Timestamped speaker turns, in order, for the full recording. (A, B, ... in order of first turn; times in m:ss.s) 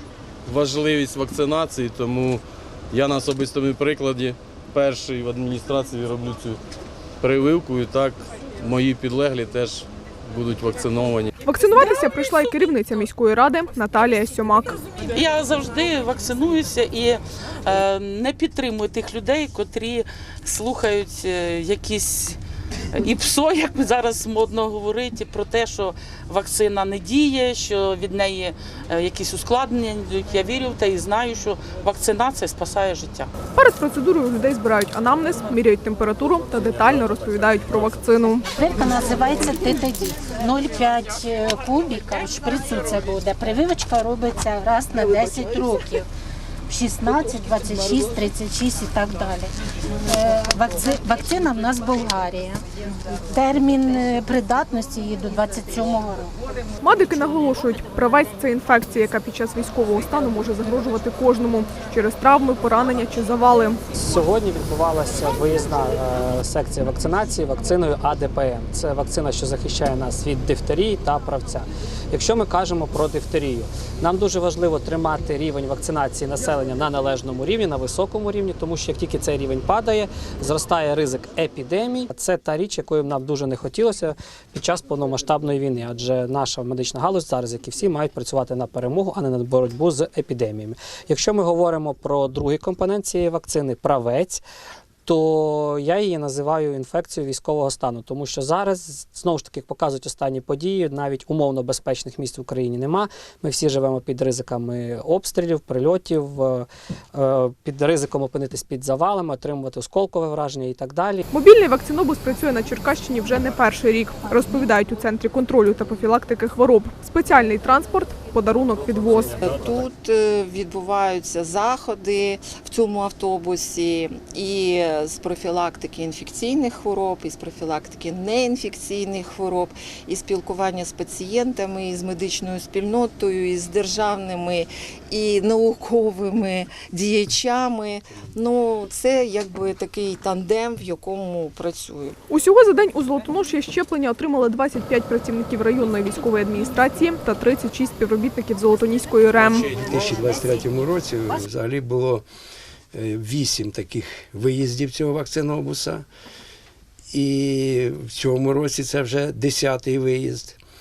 0:00.4-0:06.6 A
0:07.2-0:11.3 A
0:11.4-0:14.8 B
0:15.1-0:22.4 C
0:22.9-0:33.3 C
0:33.5-0:38.4 B
0:38.6-0:46.0 D
0:46.7-0:49.4 D
0:50.1-0:52.6 D
0:53.3-0:56.3 D
0:56.8-1:03.8 B
1:04.0-1:34.4 E
1:35.0-1:51.2 E
1:51.3-1:59.3 B
1:59.4-2:22.1 F
2:22.3-2:29.7 B
2:29.4-2:32.2 G
2:32.9-2:36.0 G
2:37.1-2:40.6 G